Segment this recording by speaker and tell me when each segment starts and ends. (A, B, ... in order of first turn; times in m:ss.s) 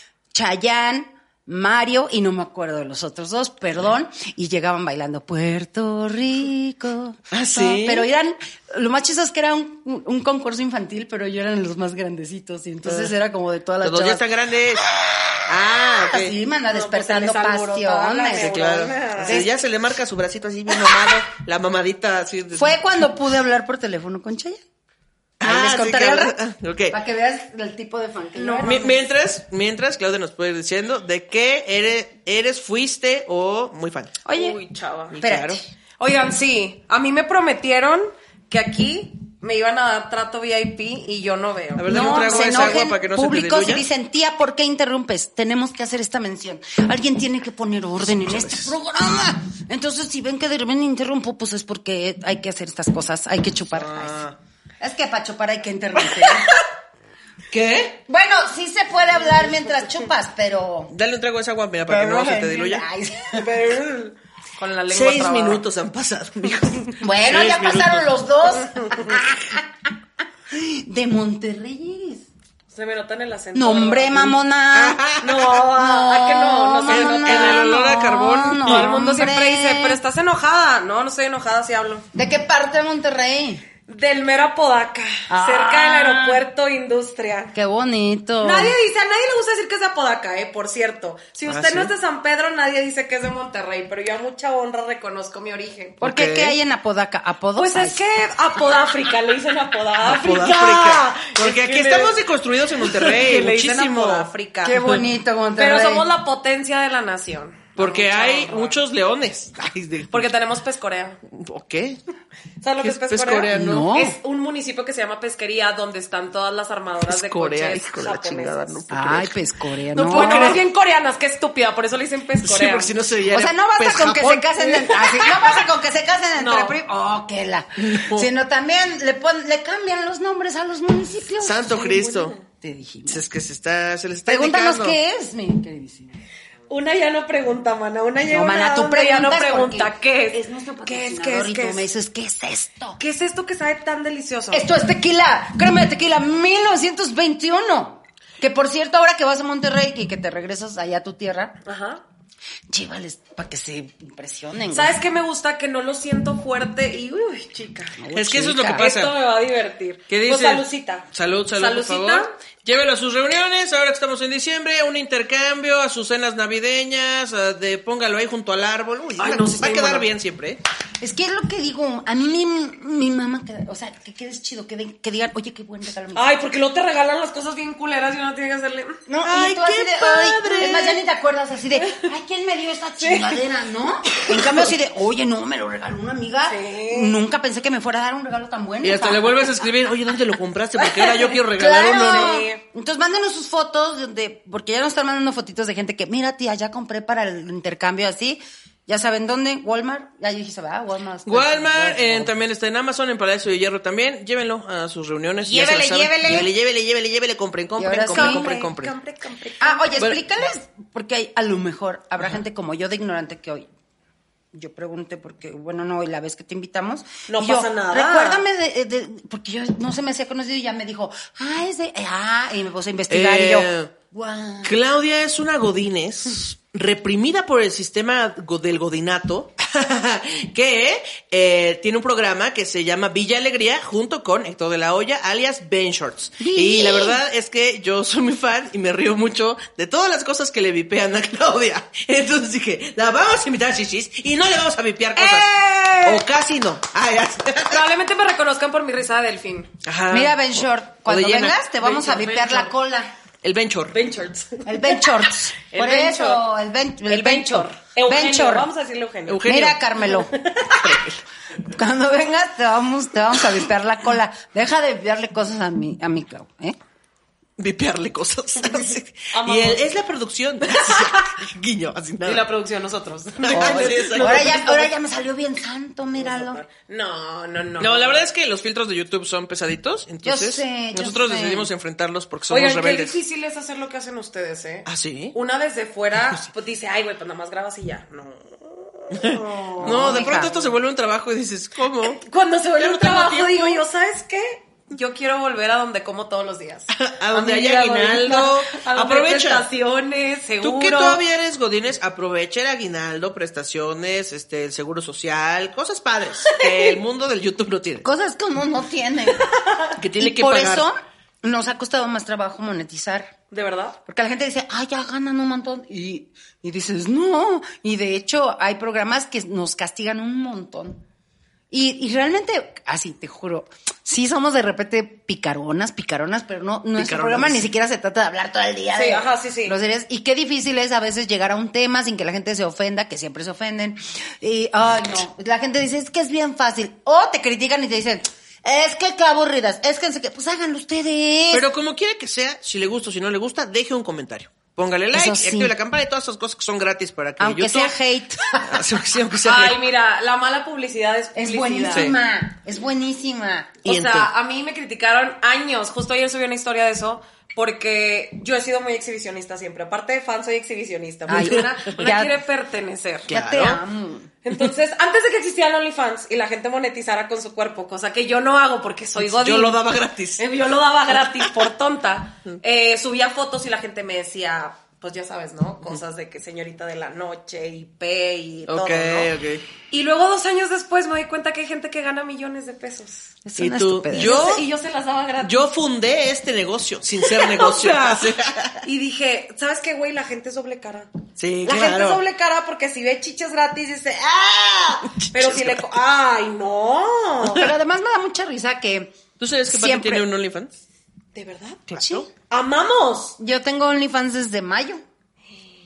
0:00.3-0:14.2 A
0:07.3-0:08.1 B
0:12.8-0:13.1 B
0:13.8-0:14.9 B
0:15.4-0:16.3 B
0:15.8-0:18.7 A
0:16.7-0:19.4 C
0:18.4-0:22.8 B
0:19.2-0:19.5 A
0:22.5-0:24.6 A
0:25.4-0:27.0 B
0:25.4-0:26.4 A
0:26.9-0:29.0 A
0:28.4-0:29.0 C
0:28.6-0:34.2 B
0:34.2-0:34.6 A
0:34.3-0:35.2 C
0:35.1-0:35.6 B
0:35.2-0:35.6 A
0:36.0-0:42.8 C
0:41.8-0:43.8 B
0:41.9-0:54.2 A
0:48.0-0:48.7 B
0:53.7-0:54.4 B
0:54.8-0:56.6 A
0:57.5-0:58.0 B
0:58.1-1:00.9 A
1:00.9-1:02.8 B
1:01.9-1:03.5 A
1:03.3-1:05.6 C
1:04.9-1:08.0 B
1:07.0-1:09.9 A
1:08.5-1:09.2 C
1:10.5-1:12.3 A
1:12.7-1:14.3 C
1:13.5-1:15.0 A
1:14.2-1:15.6 B
1:15.2-1:17.7 C
1:15.7-1:20.0 A
1:16.9-1:18.9 B
1:18.6-1:22.0 C
1:22.1-1:23.6 A
1:23.9-1:27.5 C
1:25.3-1:26.4 A
1:27.5-1:28.7 A
1:28.4-1:36.0 C
1:31.5-1:31.9 B
1:36.0-1:36.6 B
1:36.0-1:38.0 A
1:37.6-1:42.1 C
1:40.0-1:44.3 B
1:42.8-1:45.0 C
1:44.6-1:46.1 A
1:45.6-1:48.8 C
1:47.8-1:50.3 B
1:50.1-1:51.2 C
1:51.3-1:52.0 B
1:52.6-1:58.8 C
1:52.8-1:53.9 B
1:53.5-1:54.2 A
1:57.1-1:59.4 B
1:58.9-2:00.6 A
1:59.9-2:00.6 B
2:00.1-2:02.9 C
2:02.4-2:05.0 B
2:03.3-2:13.2 A
2:04.8-2:05.2 C
2:06.4-2:06.8 C
2:07.8-2:08.3 B
2:11.4-2:12.4 B
2:13.1-2:15.0 B
2:14.3-2:16.2 A
2:16.7-2:21.8 C
2:18.3-2:23.0 A
2:23.0-2:24.7 C
2:24.5-2:31.6 A
2:31.6-2:32.0 C
2:32.7-2:35.0 A
2:34.7-2:38.0 C
2:38.0-2:38.9 A
2:38.1-2:39.2 B
2:38.7-2:42.3 C
2:40.1-2:50.6 B
2:49.2-2:50.1 C
2:51.0-2:56.3 A
2:56.1-2:59.0 C
2:59.1-3:09.7 A
2:59.2-3:01.0 B
3:01.8-3:02.1 C
3:03.0-3:03.4 C
3:04.3-3:04.7 B
3:06.5-3:07.2 C
3:08.8-3:12.4 B
3:11.0-3:12.6 C
3:11.3-3:22.3 A
3:21.2-3:28.9 B
3:25.4-3:26.5 A
3:27.8-3:28.5 A
3:28.1-3:30.0 C
3:29.6-3:33.7 A
3:34.5-3:44.8 A
3:37.3-3:38.4 C
3:43.1-3:43.9 B
3:44.6-4:07.9 B
3:56.4-3:57.2 A
4:05.2-4:06.2 C
4:07.7-4:09.7 C
4:09.8-4:11.6 B
4:10.1-4:13.1 A
4:11.8-4:12.7 C
4:13.4-4:14.0 B
4:13.9-4:16.4 C
4:14.6-4:18.7 A
4:17.1-4:19.4 C
4:19.3-4:19.8 B
4:19.4-4:20.3 A
4:20.0-4:20.8 C
4:20.7-4:21.2 B
4:21.7-4:26.8 A
4:27.6-4:32.4 B
4:29.3-4:29.8 C
4:30.7-4:31.2 C
4:32.2-4:34.9 C
4:33.4-4:34.6 B
4:33.5-4:36.6 A
4:36.2-4:38.2 C
4:37.8-4:43.2 B
4:40.2-4:41.7 A
4:42.5-4:50.7 C
4:44.8-4:45.3 B
4:49.2-4:52.2 B
4:49.8-4:50.5 A
4:52.0-5:01.2 C
4:52.8-4:53.8 B
4:56.9-4:59.6 B
5:00.6-5:08.0 B
5:06.4-5:07.0 C
5:08.0-5:09.4 A
5:09.4-5:09.9 C
5:10.0-5:10.9 B
5:10.2-5:13.3 A
5:13.5-5:14.0 C
5:14.0-5:21.0 A
5:21.7-5:41.6 A
5:27.0-5:27.6 B
5:28.9-5:29.8 C
5:41.5-5:47.9 B
5:45.1-5:45.7 A
5:47.4-5:48.8 A
5:48.6-5:49.8 B
5:49.4-5:52.1 C
5:51.3-5:53.8 A
5:51.9-5:52.2 B
5:53.8-6:03.3 C
5:53.8-5:54.3 B
6:01.3-6:02.3 A
6:01.3-6:01.6 B
6:03.3-6:03.8 B
6:03.3-6:04.3 A
6:04.4-6:09.8 C
6:09.2-6:10.5 B
6:10.4-6:19.3 C
6:18.7-6:19.6 B
6:19.9-6:23.3 C
6:23.4-6:24.6 A
6:23.6-6:24.6 B
6:24.1-6:25.6 C
6:25.4-6:28.8 B
6:27.2-6:28.3 C
6:28.8-6:31.1 C
6:31.4-6:32.2 B
6:31.6-6:37.7 C
6:35.1-6:35.9 B
6:37.5-6:40.2 A
6:39.4-6:40.7 B
6:41.3-6:41.9 C
6:41.9-6:42.3 B
6:42.0-6:42.3 A
6:42.4-6:43.4 C
6:43.4-6:45.0 A